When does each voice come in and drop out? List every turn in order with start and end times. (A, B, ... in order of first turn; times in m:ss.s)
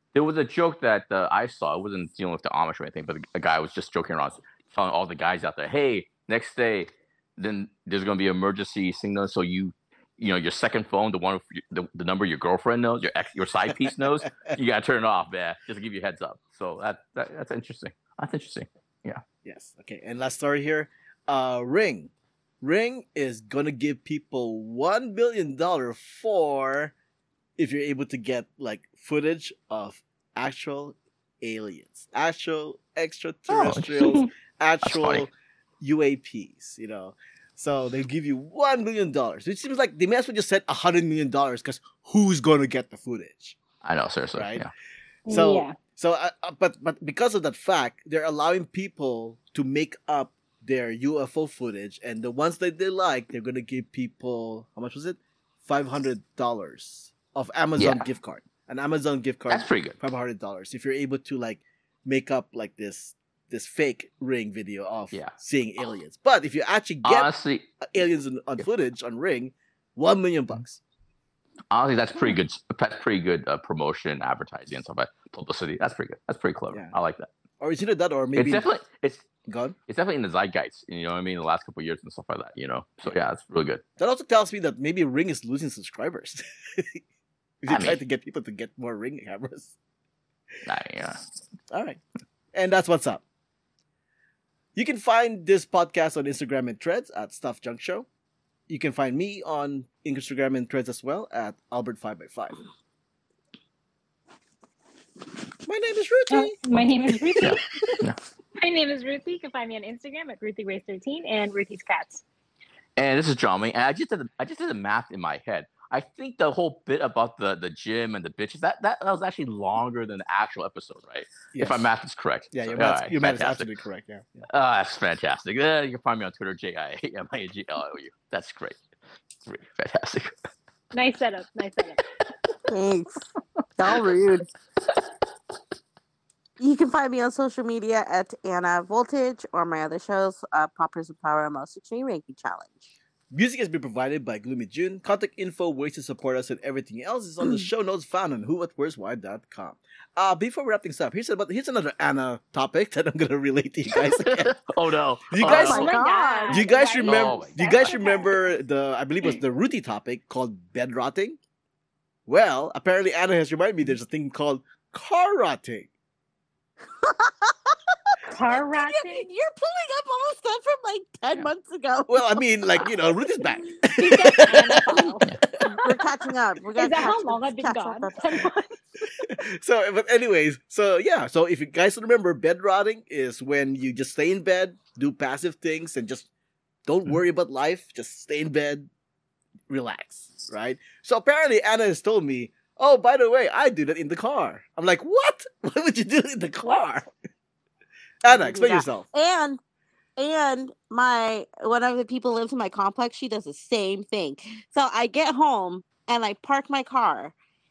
0:00.1-0:19.2 A
0:19.4-0:26.9 B
0:27.6-0:43.6 B
0:33.5-0:34.2 A
0:34.8-0:35.3 A
0:43.8-0:44.7 A
0:44.4-0:44.7 B
0:45.3-0:45.8 C
0:45.3-1:07.3 B
0:57.8-0:58.1 A
0:59.5-1:00.0 A
1:07.0-1:07.7 A
1:07.8-1:10.8 B
1:11.7-1:17.3 A
1:17.6-1:18.7 B
1:18.4-1:19.3 A
1:19.5-1:19.8 B
1:19.9-1:23.8 A
1:24.0-1:27.0 B
1:27.6-1:29.7 B
1:27.7-1:28.0 A
1:30.7-1:31.2 A
1:31.7-1:32.0 B
1:32.5-1:33.2 B
1:34.8-1:38.1 B
1:38.7-1:42.6 B
1:45.7-1:46.6 B
1:46.3-1:48.0 C
1:47.4-1:48.2 A
1:48.6-1:52.2 C
1:53.0-2:03.7 A
2:01.5-2:01.9 B
2:02.5-2:04.4 B
2:04.5-2:08.8 A
2:09.4-2:10.3 A
2:10.9-2:12.0 C
2:12.7-2:13.3 D
2:13.8-2:14.5 D
2:16.6-2:22.9 D
2:23.3-2:34.5 B
2:27.4-2:27.7 D
2:33.9-2:35.9 A
2:35.3-2:35.9 B
2:35.4-2:36.7 D
2:35.6-2:38.5 C
2:36.5-2:41.4 B
2:37.0-2:37.9 A
2:42.3-2:45.9 B
2:47.0-2:52.8 D
2:48.3-2:49.3 C
2:52.1-2:55.1 B
2:54.0-2:56.0 C
2:55.7-2:58.2 D
2:56.8-2:59.2 C
2:59.2-3:06.3 B
3:06.9-3:08.9 B
3:09.7-3:17.1 B
3:18.2-3:19.1 B
3:18.3-3:19.6 D
3:20.2-3:27.4 D